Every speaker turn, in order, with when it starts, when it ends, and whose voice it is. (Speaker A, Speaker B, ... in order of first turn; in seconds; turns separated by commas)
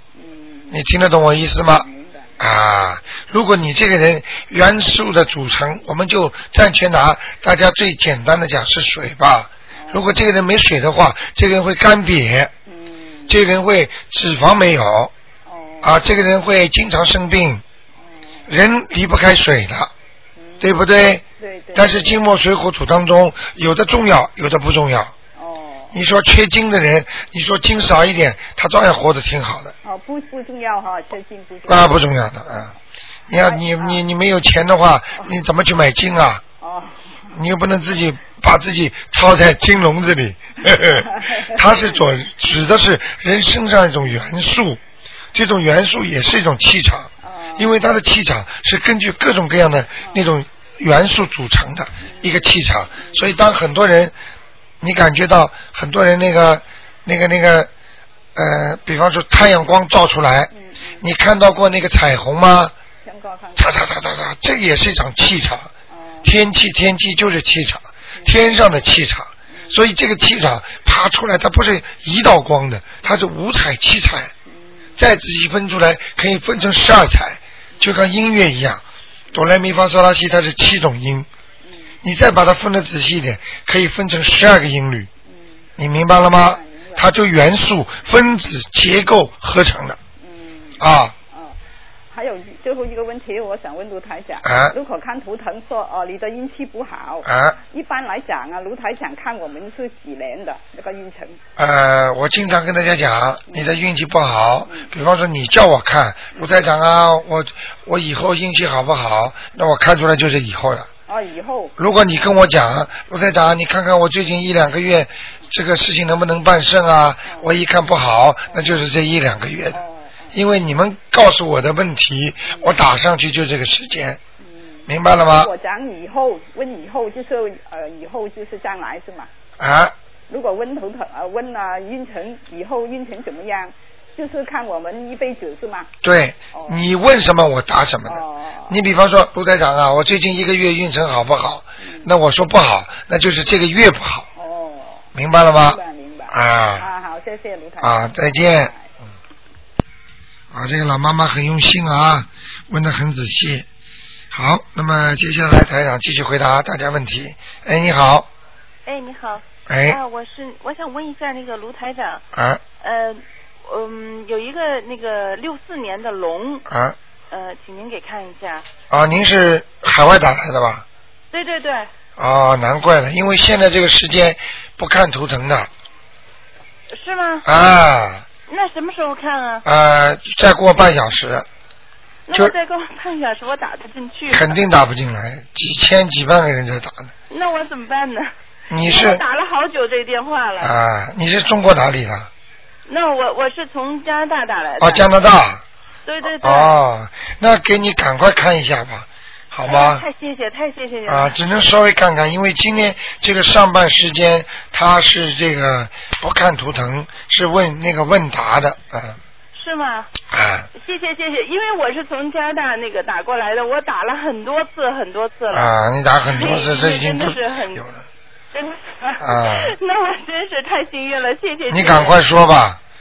Speaker A: 0.1-0.8, Speaker B: 0.7-1.9, Speaker A: 1.5-2.3, Speaker B: 2.4-12.5, Speaker A: 9.8-10.1, Speaker A: 12.7-13.3, Speaker B: 13.3-15.1, Speaker A: 15.4-16.0, Speaker B: 15.8-17.6, Speaker A: 18.0-18.5, Speaker B: 18.5-19.9, Speaker A: 20.4-20.8, Speaker B: 20.6-21.2, Speaker A: 21.4-22.2, Speaker B: 21.7-25.1, Speaker A: 25.4-25.9, Speaker B: 25.9-29.7, Speaker A: 29.8-32.0, Speaker B: 31.7-32.7, Speaker B: 33.3-36.4, Speaker A: 33.4-34.0, Speaker A: 36.6-37.3, Speaker B: 37.3-44.8, Speaker A: 41.0-41.9, Speaker B: 45.3-54.1, Speaker A: 47.2-47.8, Speaker A: 52.0-52.4, Speaker B: 54.8-57.7, Speaker B: 58.3-62.7, Speaker A: 60.5-61.0, Speaker A: 63.0-63.9, Speaker B: 63.5-65.7, Speaker A: 65.9-66.3, Speaker B: 66.2-74.3, Speaker A: 68.2-68.6, Speaker A: 69.5-69.8, Speaker A: 74.5-75.0, Speaker B: 75.0-78.8, Speaker B: 79.3-81.3, Speaker A: 81.6-81.9, Speaker B: 82.0-85.1, Speaker A: 85.3-85.7, Speaker B: 85.8-90.0, Speaker A: 86.3-87.1, Speaker A: 90.2-90.8, Speaker B: 90.8-91.1, Speaker A: 92.1-101.4, Speaker B: 94.4-94.7, Speaker B: 97.2-97.6, Speaker B: 101.6-110.9, Speaker A: 103.5-103.8, Speaker A: 111.1-111.7, Speaker B: 111.8-119.8, Speaker A: 118.5-118.9, Speaker A: 119.7-120.3, Speaker B: 120.3-124.2, Speaker A: 122.5-122.8, Speaker A: 124.4-129.3, Speaker B: 124.9-125.5, Speaker B: 129.6-129.9, Speaker A: 130.3-135.9, Speaker B: 136.0-144.3, Speaker A: 136.5-136.8, Speaker A: 138.1-138.8, Speaker A: 141.8-142.1, Speaker A: 144.3-145.1, Speaker B: 145.1-146.9, Speaker A: 145.6-148.9, Speaker B: 147.8-148.7, Speaker B: 150.5-153.7, Speaker B: 154.3-158.3, Speaker C: 158.8-162.2, Speaker B: 159.7-160.0, Speaker B: 162.3-162.6, Speaker C: 162.8-166.6, Speaker B: 166.7-167.0, Speaker C: 167.3-168.7, Speaker B: 168.9-170.8, Speaker C: 171.3-171.9, Speaker B: 172.2-175.7, Speaker C: 176.9-177.5, Speaker B: 177.4-178.2, Speaker C: 178.5-179.6, Speaker B: 179.6-181.5, Speaker C: 182.3-184.6, Speaker B: 184.3-187.1, Speaker C: 187.3-188.3, Speaker B: 188.7-189.2, Speaker C: 188.8-190.8, Speaker B: 190.6-192.3, Speaker C: 192.9-195.1, Speaker B: 194.8-195.6, Speaker C: 196.1-196.8, Speaker B: 196.2-200.0, Speaker C: 199.7-201.3, Speaker B: 201.1-209.2, Speaker C: 209.5-210.1, Speaker B: 210.3-210.7, Speaker C: 210.7-215.7, Speaker B: 215.5-218.0, Speaker C: 216.3-217.8, Speaker C: 218.5-222.2, Speaker B: 219.2-219.7, Speaker B: 221.7-222.8